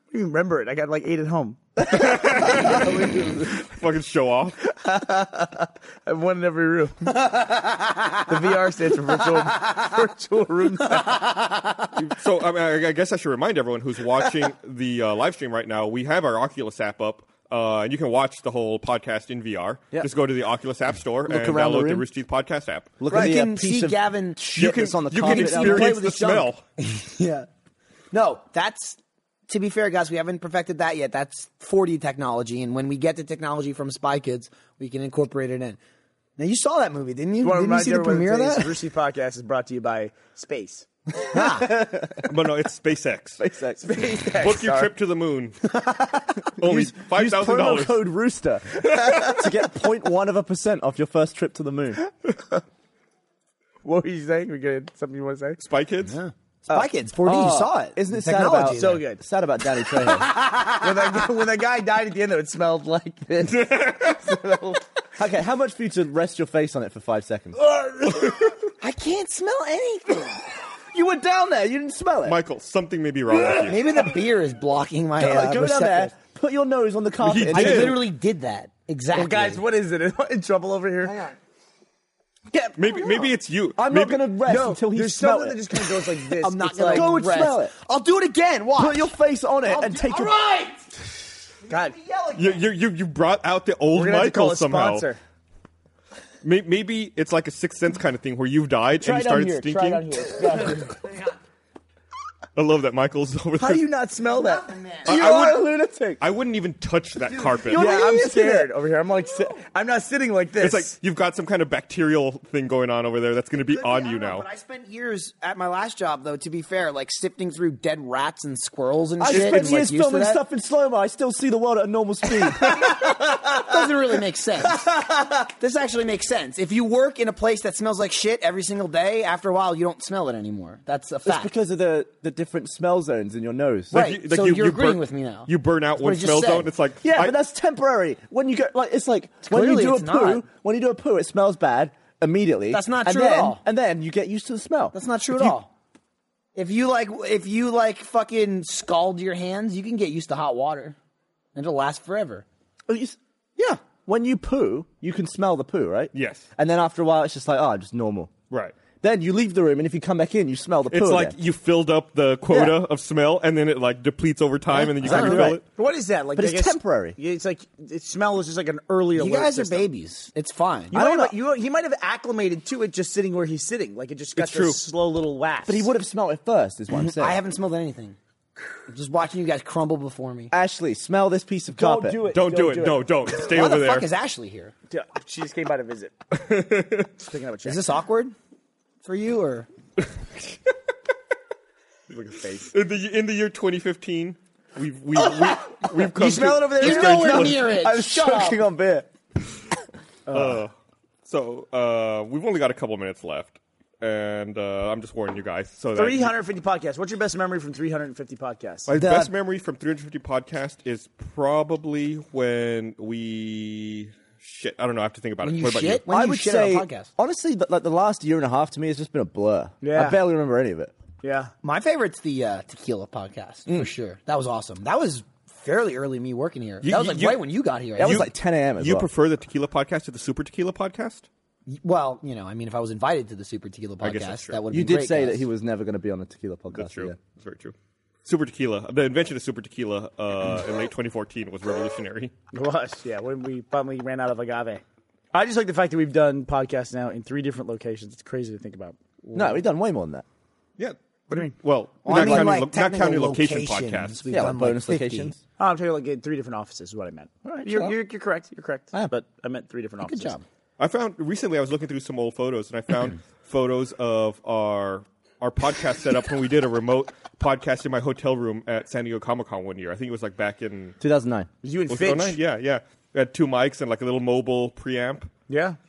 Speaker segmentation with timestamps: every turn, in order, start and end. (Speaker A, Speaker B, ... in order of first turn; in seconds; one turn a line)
Speaker A: 0.1-1.6
Speaker B: 1.8-4.6
Speaker C: 3.0-3.5
Speaker A: 4.6-7.1
Speaker D: 7.1-8.4
Speaker A: 8.3-11.2
Speaker D: 10.9-11.9
Speaker B: 12.0-23.0
Speaker C: 21.3-22.1
Speaker C: 23.0-26.0
Speaker D: 23.1-27.5
Speaker B: 24.6-26.6
Speaker D: 28.1-35.8
Speaker D: 36.4-38.8
Speaker A: 37.4-40.9
Speaker D: 41.2-41.9
Speaker C: 41.4-42.3
Speaker B: 42.2-43.4
Speaker C: 43.4-44.0
Speaker A: 43.8-44.9
Speaker B: 44.2-45.6
Speaker D: 45.8-46.2
Speaker B: 46.6-48.0
Speaker C: 46.6-52.0
Speaker A: 53.8-55.6
Speaker B: 55.6-56.2
Speaker D: 56.1-59.0
Speaker C: 57.2-60.3
Speaker A: 58.7-59.2
Speaker D: 60.0-61.2
Speaker A: 60.7-64.8
Speaker B: 63.5-64.2
Speaker C: 65.2-67.6
Speaker D: 68.8-70.6
Speaker C: 70.9-72.4
Speaker B: 72.2-74.0
Speaker D: 73.5-76.1
Speaker C: 75.2-78.0
Speaker B: 77.2-78.0
Speaker D: 77.5-79.6
Speaker A: 79.1-81.2
Speaker D: 81.0-81.4
Speaker B: 82.8-84.3
Speaker C: 83.8-85.7
Speaker A: 84.5-87.1
Speaker D: 86.4-89.1
Speaker C: 86.9-87.7
Speaker C: 88.8-90.4
Speaker D: 89.6-90.9
Speaker D: 91.7-92.7
Speaker A: 91.7-92.0
Speaker B: 92.4-95.1
Speaker A: 93.9-95.2
Speaker B: 96.4-100.3
Speaker A: 99.0-101.0
Speaker D: 100.8-101.3
Speaker B: 102.6-103.9
Speaker A: 103.6-104.7
Speaker D: 104.3-105.4
Speaker C: 105.0-106.2
Speaker B: 105.0-107.9
Speaker D: 107.3-108.5
Speaker A: 107.7-111.0
Speaker C: 107.8-108.7
Speaker B: 110.6-114.5
Speaker D: 113.7-120.4
Speaker C: 119.2-123.1
Speaker D: 122.4-131.5
Speaker C: 131.2-133.9
Speaker D: 133.9-136.7
Speaker B: 133.9-137.4
Speaker C: 137.0-145.6
Speaker D: 139.5-140.4
Speaker D: 142.7-143.6
Speaker D: 144.9-145.7
Speaker D: 146.6-151.0
Speaker D: 151.6-152.4
Speaker C: 152.9-158.3
Speaker B: 156.1-156.4
Speaker C: 159.0-161.4
Speaker B: 160.9-165.6
Speaker C: 162.5-162.8
Speaker D: 164.8-165.6
Speaker C: 164.8-165.6
Speaker A: 165.6-169.9
Speaker C: 166.4-167.2
Speaker D: 169.2-171.0
Speaker A: 170.9-175.9
Speaker C: 170.9-171.3
Speaker B: 174.4-174.8
Speaker C: 175.7-177.4
Speaker D: 176.9-178.2
Speaker D: 178.9-180.5
Speaker C: 180.5-182.4
Speaker A: 181.7-183.1
Speaker B: 182.3-184.1
Speaker D: 183.3-184.7
Speaker A: 184.9-186.1
Speaker B: 186.3-187.1
Speaker A: 187.2-187.8
Speaker D: 187.7-188.3
Speaker D: 189.0-189.7
Speaker A: 192.1-192.7
Speaker B: 192.7-197.8
Speaker D: 195.2-198.6
Speaker A: 196.1-197.5
Speaker C: 197.6-199.1
Speaker A: 200.3-200.6
Speaker B: 200.3-200.7
Speaker B: 201.3-206.3
Speaker A: 206.0-208.9
Speaker B: 208.9-216.0
Speaker D: 208.9-209.3
Speaker D: 215.4-217.1
Speaker C: 216.1-220.9
Speaker A: 219.8-220.2
Speaker A: 221.2-221.5
Speaker D: 221.6-228.3
Speaker B: 226.8-227.4
Speaker C: 228.0-229.1
Speaker B: 228.0-231.3
Speaker D: 231.7-235.4
Speaker B: 234.0-234.6
Speaker C: 234.7-237.2
Speaker B: 236.7-242.3
Speaker A: 242.5-249.6
Speaker C: 249.3-250.2
Speaker B: 250.8-254.4
Speaker D: 252.0-255.3
Speaker C: 252.1-252.6
Speaker C: 254.3-255.4
Speaker A: 255.6-260.4
Speaker C: 257.5-257.9
Speaker D: 260.0-260.4
Speaker B: 260.8-271.0
Speaker C: 271.0-271.5
Speaker A: 271.6-272.4
Speaker B: 271.9-275.3
Speaker A: 275.5-275.8